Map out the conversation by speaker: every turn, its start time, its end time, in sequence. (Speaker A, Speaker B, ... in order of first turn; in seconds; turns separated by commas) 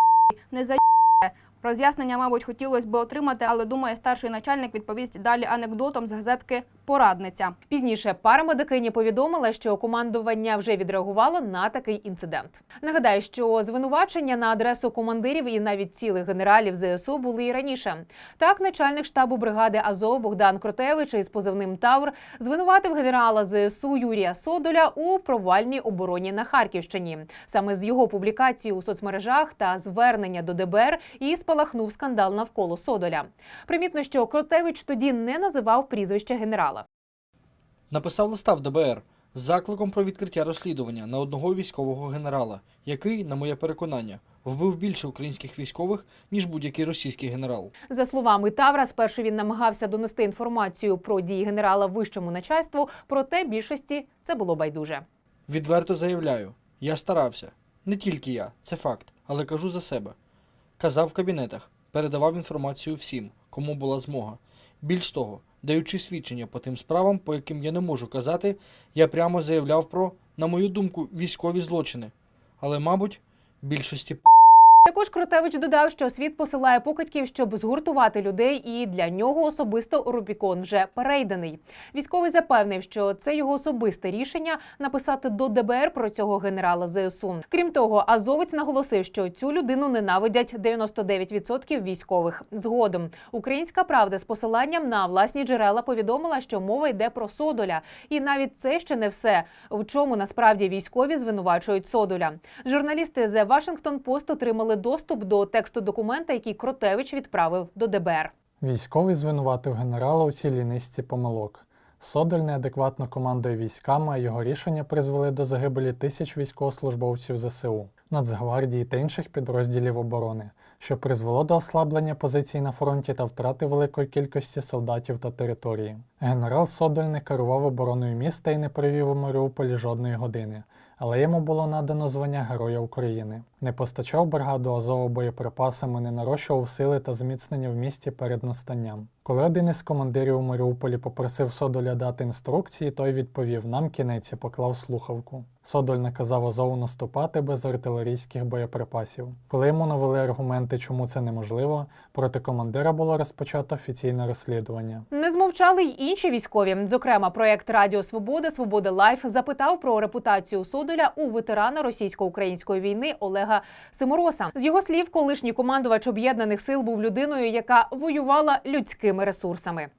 Speaker A: 0.5-7.5, Speaker B: 7.7-36.9, Speaker C: 37.9-47.7, Speaker B: 47.9-55.0, Speaker C: 55.5-60.1, Speaker C: 60.8-74.2, Speaker B: 74.8-108.3, Speaker D: 108.6-155.1, Speaker B: 155.1-169.9